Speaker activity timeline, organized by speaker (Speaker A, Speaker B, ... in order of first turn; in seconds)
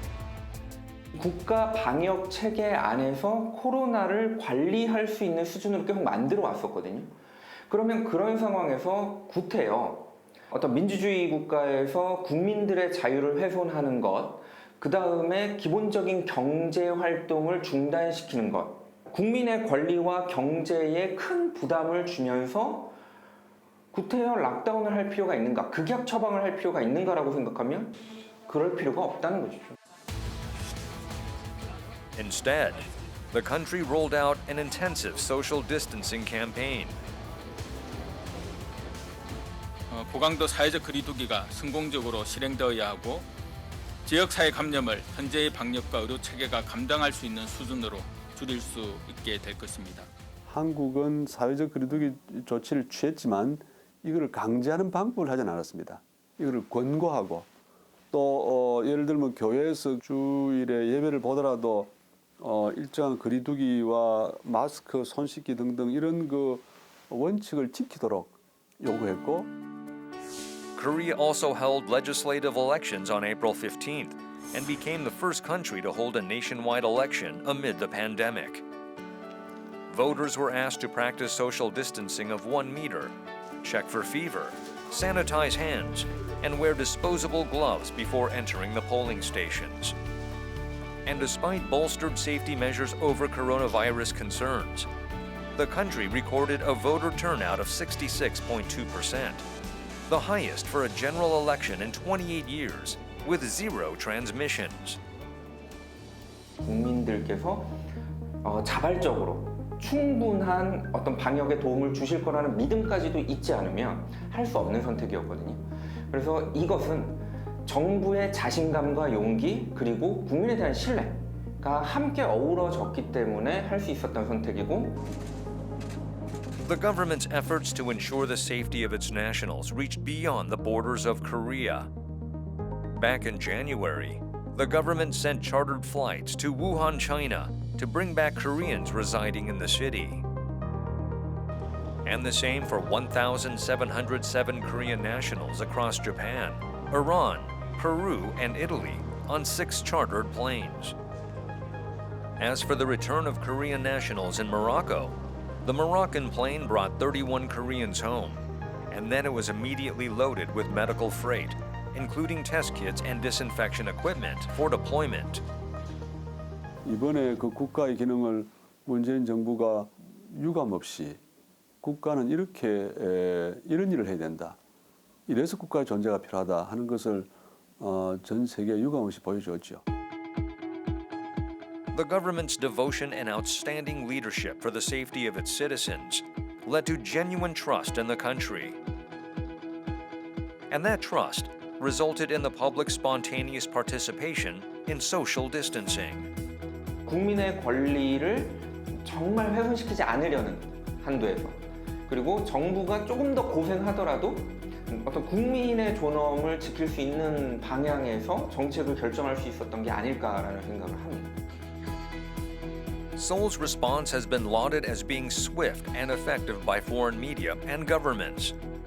Speaker A: 1.1-7.2, 7.7-23.0, 23.9-27.9, 28.5-29.8, 106.6-107.8, 108.4-125.0, 197.1-211.4
Speaker B: 32.2-37.0, 70.8-78.6, 79.9-90.0, 91.0-94.9, 95.6-99.5, 100.1-105.0, 126.7-131.9, 132.9-140.2, 142.1-151.0, 152.4-165.4, 181.9-188.8, 190.7-196.3, 213.2-218.6
Speaker C: 39.9-43.3, 44.0-50.1
Speaker D: 50.5-57.5, 58.1-69.5, 166.8-171.2, 171.8-174.6, 175.3-179.8